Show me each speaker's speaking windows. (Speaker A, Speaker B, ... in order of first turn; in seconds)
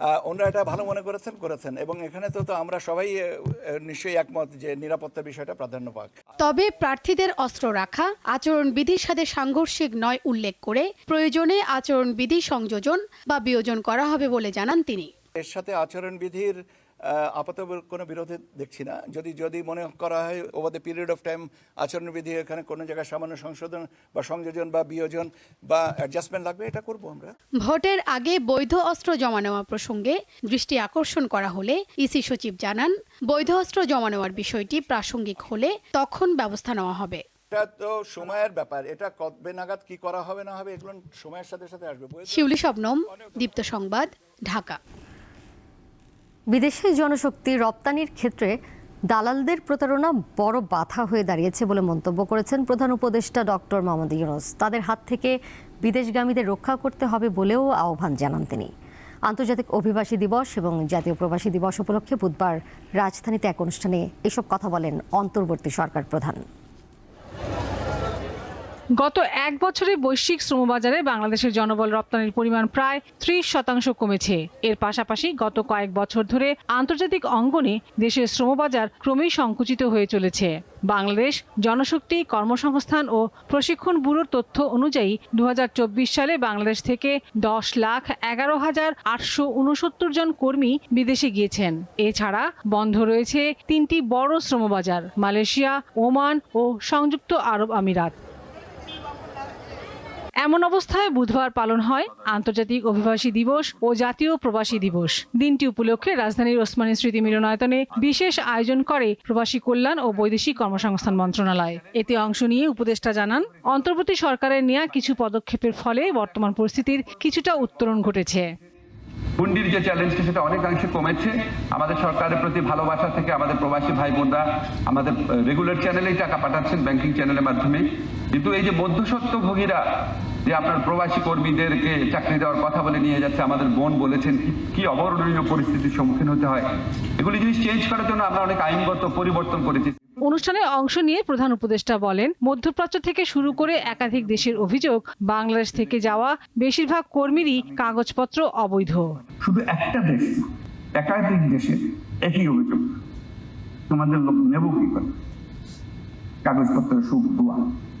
Speaker A: 0.2-6.1, 15.4-16.6, 17.1-27.3, 37.5-42.6
Speaker B: 6.4-15.1, 27.6-37.2, 42.3-44.8
Speaker C: 46.5-48.5, 49.1-58.7, 59.3-66.4
Speaker D: 69.0-98.1, 100.4-118.5, 140.2-149.2
Speaker E: 119.4-129.8, 130.4-139.9, 149.4-150.4, 151.0-152.8, 153.9-155.1, 156.4-157.6